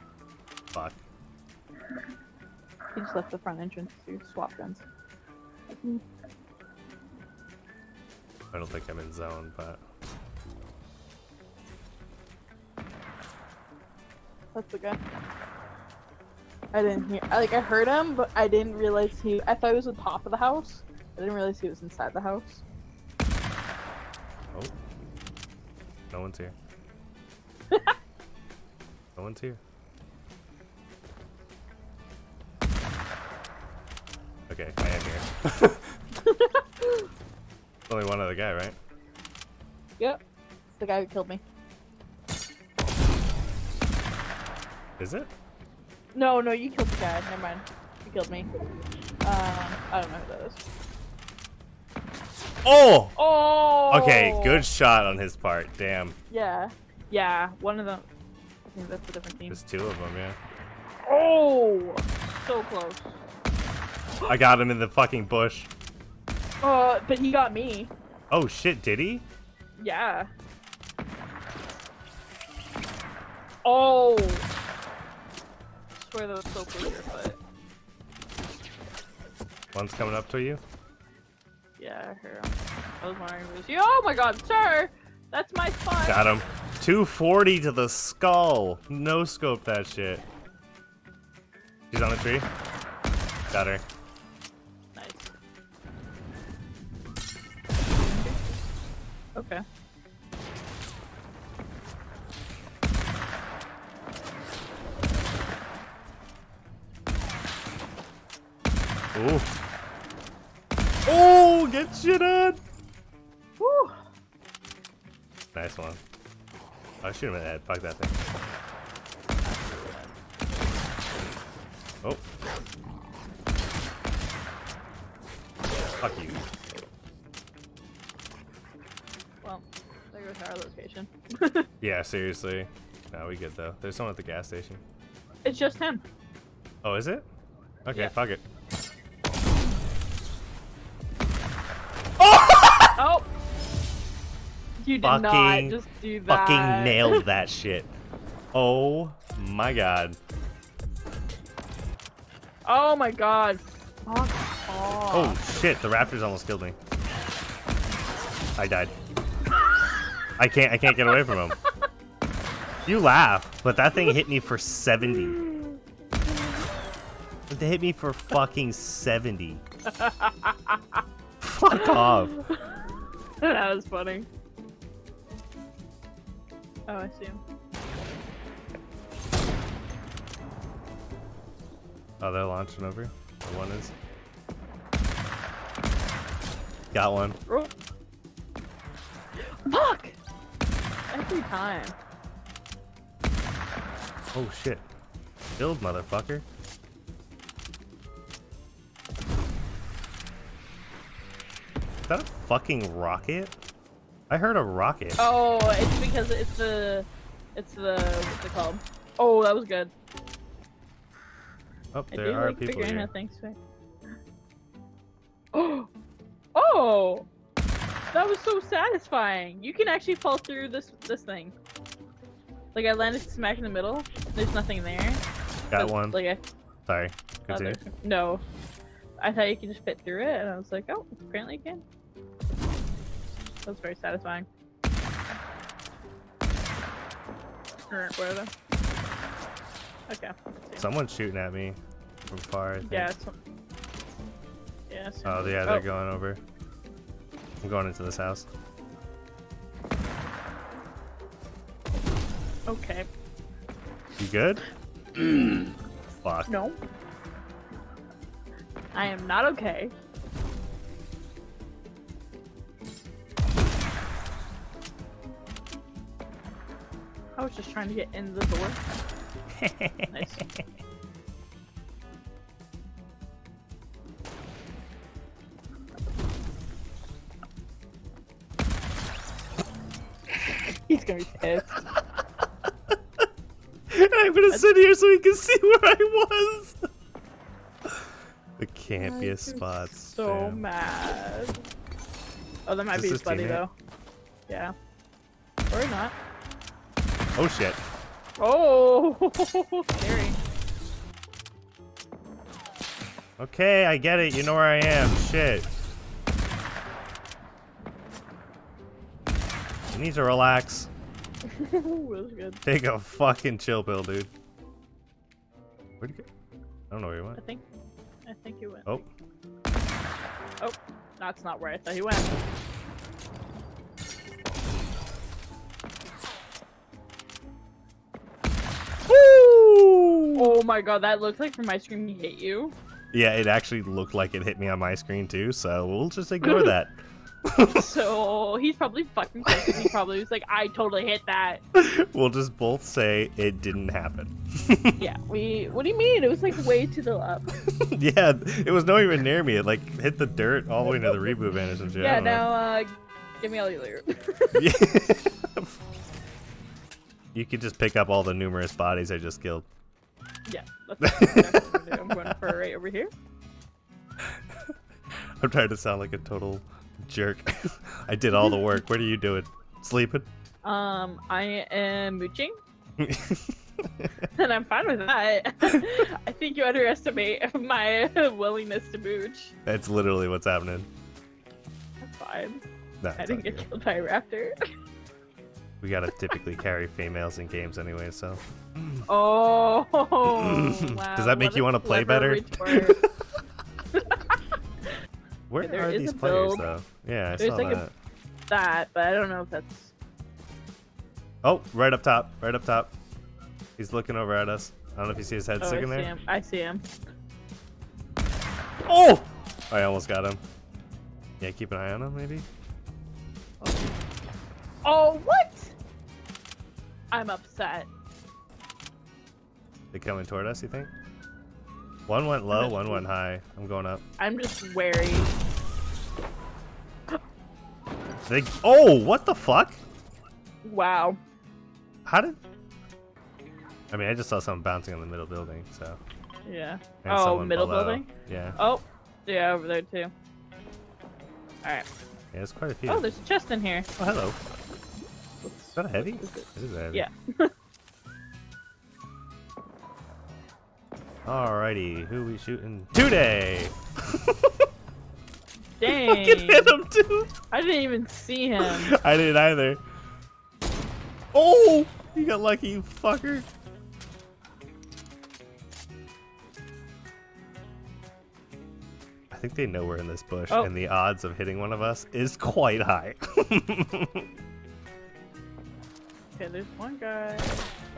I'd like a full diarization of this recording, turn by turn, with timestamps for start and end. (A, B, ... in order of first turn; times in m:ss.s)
0:00.7-0:01.0 A
0:03.0-0:04.8 B
0:05.7-0:06.0 B
0:08.5-0:09.8 A
0:14.5-0:15.0 B
0:16.7-0:22.6 B
0:26.1-0:26.6 A
0:29.2-0:29.6 A
0:34.5-0:36.0 A
0:36.2-0:37.1 B
0:37.9-0:38.8 A
0:40.8-0:41.4 B
0:45.0-0:45.3 A
0:46.2-0:48.5 B
0:49.2-0:50.6 B
0:52.6-0:53.2 A
0:53.2-0:54.6 B
0:53.9-0:56.2 A
0:56.3-0:58.0 B
0:58.7-0:59.6 B
0:59.5-1:00.4 A
1:01.1-1:03.2 B
1:04.3-1:05.7 A
1:06.6-1:07.9 B
1:08.3-1:09.2 A
1:09.8-1:10.3 B
1:13.6-1:14.5 B
1:16.0-1:17.4 B
1:19.7-1:20.6 A
1:21.8-1:26.3 B
1:26.0-1:30.2 A
1:31.9-1:32.5 A
1:33.5-1:33.8 A
1:35.0-1:35.3 B
1:38.0-1:38.4 B
1:39.4-1:39.6 B
1:49.1-1:49.5 A
1:51.1-1:52.6 A
1:53.6-1:54.1 B
1:55.5-1:56.0 A
1:57.0-1:58.2 A
1:59.4-2:00.2 B
2:06.0-2:06.4 A
2:09.4-2:11.7 B
2:11.8-2:14.8 A
2:15.4-2:16.0 B
2:16.8-2:17.3 A
2:17.9-2:18.4 A
2:22.2-2:22.9 A
2:23.0-2:23.3 B
2:24.8-2:27.2 B
2:25.0-2:27.9 A
2:28.5-2:30.2 A
2:32.7-2:35.4 B
2:35.1-2:36.8 A
2:38.6-2:38.9 A
2:40.4-2:41.6 A
2:42.8-2:45.4 A
2:45.3-2:45.8 B
2:47.5-2:49.6 A
2:49.9-2:51.0 B
2:51.4-2:52.3 A
2:51.7-2:52.7 B
2:53.4-2:54.3 B
2:56.9-2:57.4 B
3:02.2-3:04.0 A
3:06.9-3:07.4 A
3:09.7-3:10.2 B
3:11.1-3:12.0 B
3:14.3-3:14.8 A
3:15.6-3:16.4 A
3:22.1-3:23.6 A
3:24.3-3:25.2 A
3:25.2-3:29.9 B
3:31.9-3:33.1 A
3:32.1-3:33.6 B
3:35.5-3:35.9 B
3:36.6-3:37.3 B
3:38.1-3:41.6 B
3:42.7-3:45.2 B
3:45.7-3:46.2 A
3:45.7-3:46.4 B
3:46.9-3:47.8 A
3:47.5-3:48.4 B
3:49.2-3:51.8 B
3:53.6-3:54.5 B
3:57.9-3:58.5 B
4:00.1-4:00.8 B
4:00.8-4:01.8 A
4:02.3-4:03.1 A
4:02.8-4:03.4 B
4:04.9-4:05.8 B
4:05.2-4:06.4 A
4:07.6-4:08.5 A
4:12.7-4:13.1 B
4:14.2-4:14.6 A
4:16.2-4:16.5 A
4:16.5-4:16.8 B
4:18.9-4:19.9 B
4:27.4-4:28.8 B
4:29.6-4:30.6 A
4:30.1-4:30.4 B
4:40.3-4:41.8 B
4:43.9-4:46.9 A
4:48.6-4:50.6 A
4:49.0-4:51.6 B
4:52.7-4:53.7 B
4:52.9-4:53.6 A
4:54.5-4:54.7 B
4:55.7-4:56.1 B
4:57.4-4:57.8 A
4:58.4-5:00.4 B
5:03.4-5:05.7 A
5:09.9-5:10.9 A
5:11.5-5:12.6 B
5:12.6-5:14.3 A
5:16.0-5:16.3 A
5:16.9-5:17.4 A
5:17.4-5:17.6 B
5:18.3-5:19.0 B
5:20.6-5:22.3 B
5:29.1-5:30.6 A
5:30.4-5:32.8 B
5:33.1-5:38.0 A
5:36.4-5:36.7 B
5:37.6-5:41.6 B
5:39.5-5:39.9 A
5:41.7-5:45.0 A
5:45.0-5:47.5 B
5:47.9-5:52.5 A
5:50.9-5:51.3 B
5:52.0-5:54.7 B
5:54.6-5:55.7 A
5:57.3-5:59.7 A
6:00.5-6:03.1 B
6:01.0-6:02.4 A
6:04.2-6:04.7 A
6:05.4-6:10.3 A
6:10.6-6:12.5 B
6:13.0-6:14.1 A
6:14.4-6:19.5 B
6:15.6-6:15.9 A
6:19.7-6:20.9 A
6:22.0-6:22.6 B
6:23.0-6:23.7 A
6:23.2-6:24.5 B
6:25.8-6:29.1 A
6:29.1-6:33.0 B
6:30.2-6:32.8 A
6:34.0-6:34.4 B
6:35.5-6:37.9 A
6:35.6-6:36.7 B
6:37.4-6:37.8 B
6:38.5-6:39.9 B
6:41.4-6:42.9 A
6:43.8-6:46.1 A
6:45.6-6:46.8 B
6:48.9-6:50.4 A
6:51.4-6:52.5 A
6:53.6-6:53.9 B
6:54.8-6:55.8 B
6:57.1-6:57.9 B
6:59.9-7:00.9 A
7:02.1-7:04.0 A
7:02.5-7:03.0 B
7:04.2-7:05.3 B
7:08.3-7:09.8 A
7:10.6-7:11.2 B
7:12.0-7:12.4 A
7:13.9-7:16.0 A
7:16.5-7:20.1 B
7:17.0-7:18.6 A
7:22.3-7:23.0 A
7:22.9-7:23.9 B
7:24.0-7:24.4 A
7:25.4-7:27.5 B
7:25.8-7:27.0 A
7:31.3-7:34.6 A
7:35.8-7:36.8 B
7:35.9-7:37.3 A
7:37.5-7:38.9 B
7:38.6-7:39.8 A
7:41.3-7:43.5 A
7:49.3-7:54.2 A
7:56.4-7:57.6 B